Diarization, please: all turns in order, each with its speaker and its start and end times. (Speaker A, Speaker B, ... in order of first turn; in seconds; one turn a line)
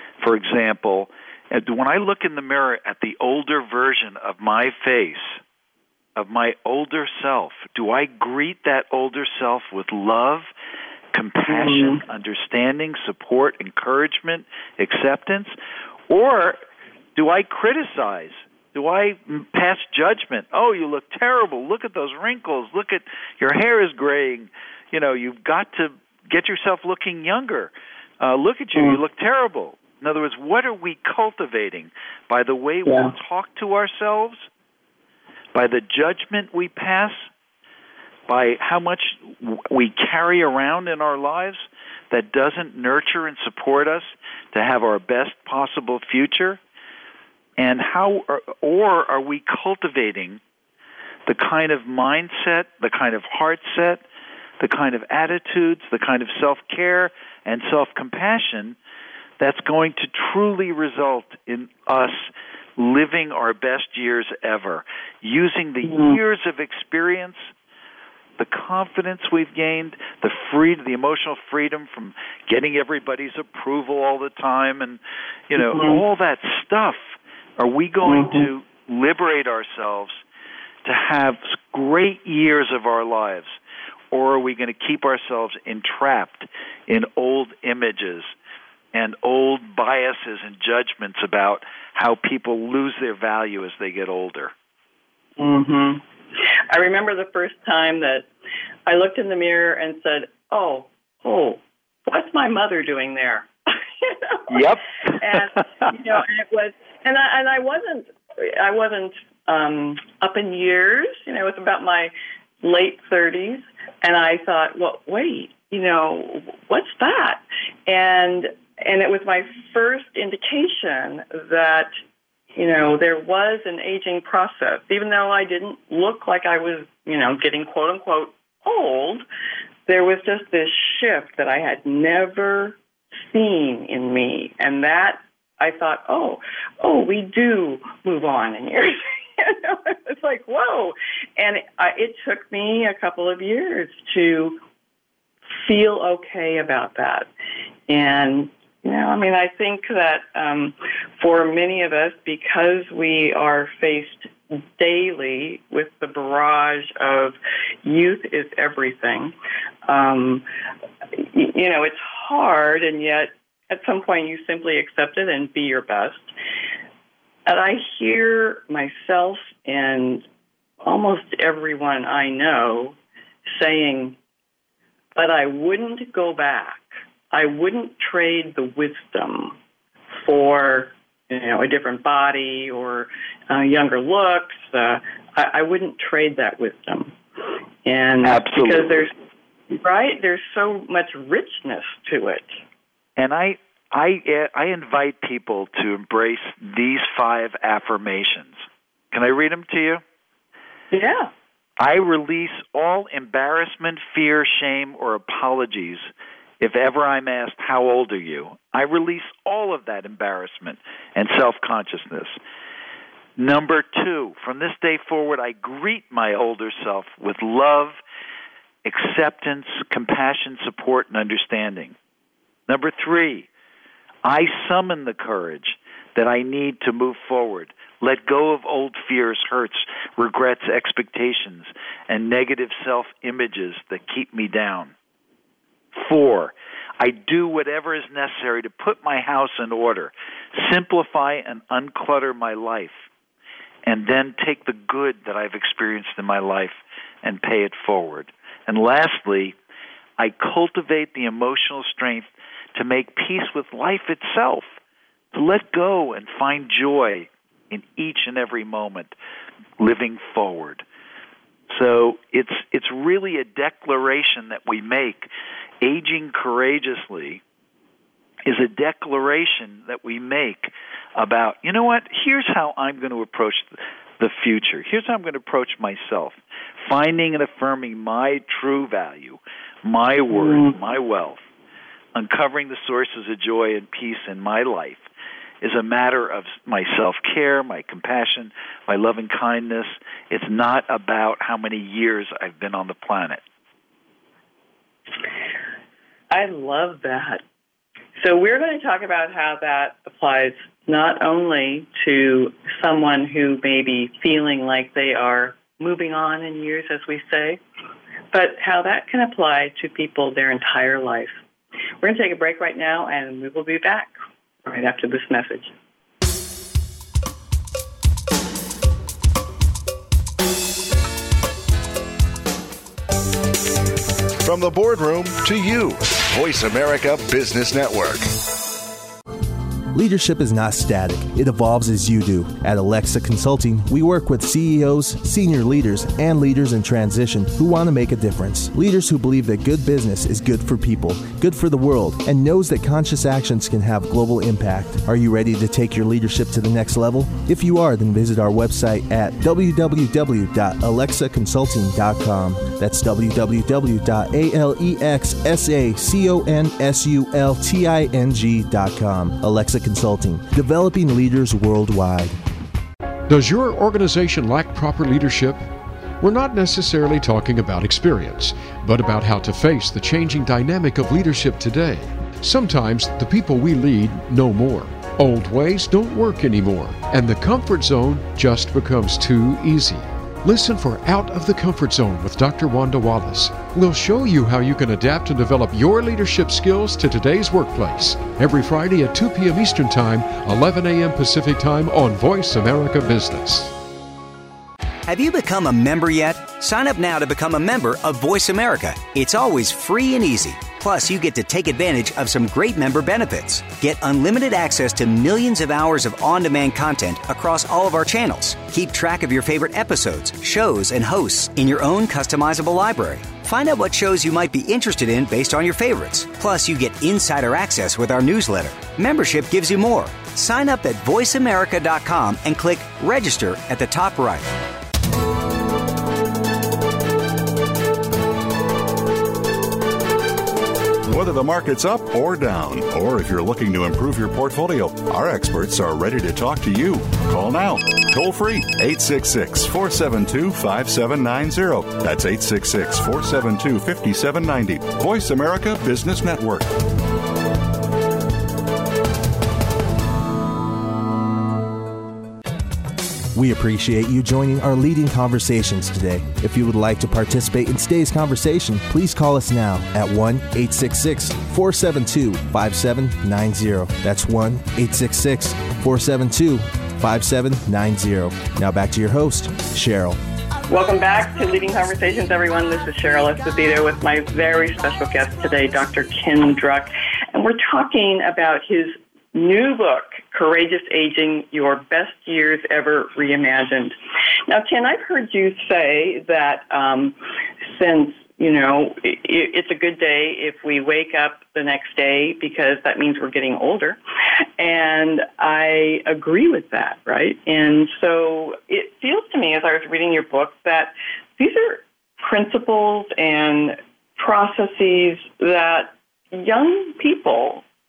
Speaker A: 0.2-5.4
Speaker A: 6.2-10.5
Speaker A: 11.1-15.5
Speaker B: 11.5-12.0
Speaker A: 16.1-16.6
Speaker A: 17.2-34.5
Speaker B: 32.9-33.1
Speaker A: 35.5-37.2
Speaker A: 38.3-46.6
Speaker A: 47.6-50.4
Speaker A: 51.3-54.0
Speaker A: 54.6-58.8
Speaker A: 59.4-67.5
Speaker B: 65.9-66.2
Speaker A: 68.4-75.0
Speaker A: 75.5-77.0
Speaker B: 75.6-76.0
Speaker A: 77.6-80.2
Speaker B: 78.0-78.5
Speaker A: 80.8-83.5
Speaker A: 84.1-88.3
Speaker A: 88.9-94.5
Speaker B: 95.4-98.3
Speaker B: 98.9-121.9
Speaker A: 104.5-105.6
Speaker B: 122.5-129.2
Speaker B: 129.9-144.6
Speaker B: 145.6-147.3
Speaker B: 147.9-159.3
Speaker B: 159.9-160.4
Speaker B: 161.2-166.3
Speaker B: 167.5-170.3
Speaker B: 170.8-173.0
Speaker B: 173.5-174.2
Speaker B: 175.2-179.6
Speaker B: 180.3-187.2
Speaker B: 187.8-189.1
Speaker A: 188.2-189.0
Speaker B: 189.7-192.6
Speaker A: 193.2-198.6
Speaker A: 199.1-200.0
Speaker B: 200.9-201.3
Speaker A: 201.8-206.1
Speaker A: 206.6-212.3
Speaker A: 213.4-218.0
Speaker A: 218.8-221.9
Speaker A: 222.7-223.5
Speaker A: 224.2-234.9
Speaker A: 235.9-243.0
Speaker A: 243.8-249.6
Speaker A: 250.2-254.7
Speaker A: 255.3-259.1
Speaker A: 259.8-260.9
Speaker A: 261.7-265.3
Speaker A: 265.8-267.4
Speaker A: 268.5-281.4
Speaker B: 280.3-280.8
Speaker A: 282.1-285.1
Speaker A: 285.6-293.4
Speaker B: 296.3-297.4
Speaker B: 298.2-307.6
Speaker B: 308.3-311.4
Speaker B: 312.0-315.7
Speaker C: 324.4-328.3
Speaker D: 329.9-362.4
Speaker E: 363.3-365.6
Speaker E: 366.2-393.8
Speaker F: 395.1-424.5
Speaker G: 431.1-446.7
Speaker D: 453.3-470.2
Speaker B: 470.7-484.0
Speaker B: 484.5-494.0
Speaker B: 494.6-507.6